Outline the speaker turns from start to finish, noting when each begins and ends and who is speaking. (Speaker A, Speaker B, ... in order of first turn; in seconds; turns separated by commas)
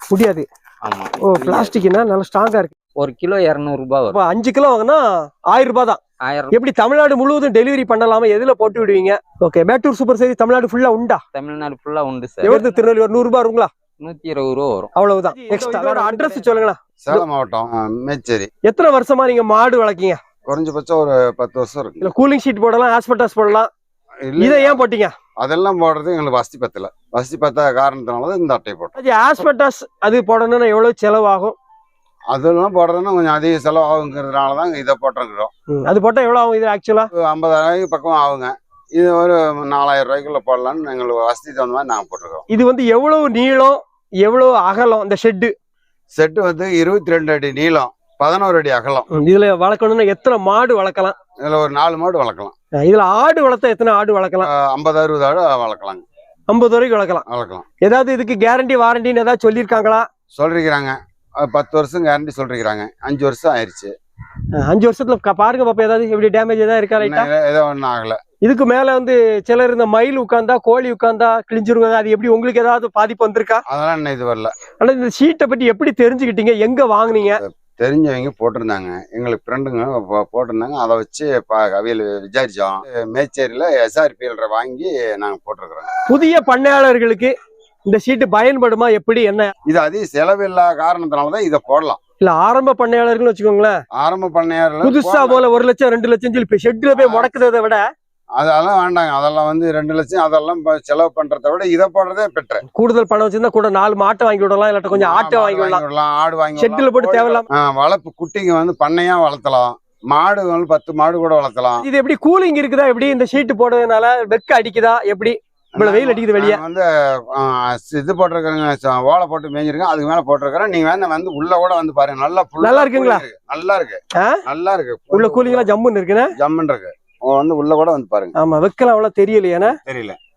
Speaker A: 0.1-0.5, Speaker B: 0.8-1.7, Speaker A: 1.3-2.7, Speaker B: 3.0-4.2, Speaker A: 4.1-6.0, Speaker B: 6.2-6.6, Speaker A: 6.5-11.2, Speaker B: 11.3-12.8, Speaker A: 12.4-13.7, Speaker B: 14.0-14.9, Speaker A: 14.9-17.2, Speaker B: 15.4-16.5, Speaker C: 17.0-18.5, Speaker A: 18.6-20.2, Speaker C: 20.4-22.1, Speaker A: 22.0-23.7, Speaker C: 24.2-24.8, Speaker A: 24.4-25.1, Speaker C: 25.4-28.9, Speaker A: 29.0-31.5, Speaker C: 32.3-35.5, Speaker A: 35.7-37.1, Speaker C: 37.1-42.5, Speaker A: 42.5-45.5, Speaker C: 46.1-49.1, Speaker A: 49.1-51.1, Speaker C: 51.4-52.5, Speaker A: 52.8-54.5, Speaker C: 54.4-56.0, Speaker A: 56.5-57.2, Speaker C: 57.2-57.6, Speaker A: 57.8-60.1, Speaker C: 60.3-63.9, Speaker A: 64.6-67.3, Speaker C: 67.0-68.2, Speaker A: 68.4-73.6, Speaker C: 73.7-74.5, Speaker A: 74.8-77.4, Speaker C: 77.3-85.9, Speaker A: 86.1-87.3, Speaker A: 87.9-89.5, Speaker C: 89.7-92.0, Speaker A: 92.2-93.8, Speaker C: 94.0-95.4, Speaker A: 94.8-97.8, Speaker C: 96.9-97.3, Speaker C: 98.4-102.6, Speaker A: 102.7-105.8, Speaker C: 104.9-111.8, Speaker A: 106.6-107.5, Speaker A: 111.8-116.6, Speaker C: 115.7-125.7, Speaker A: 122.6-123.2, Speaker A: 125.1-126.3, Speaker C: 126.3-128.3, Speaker A: 128.4-129.8, Speaker C: 129.6-130.2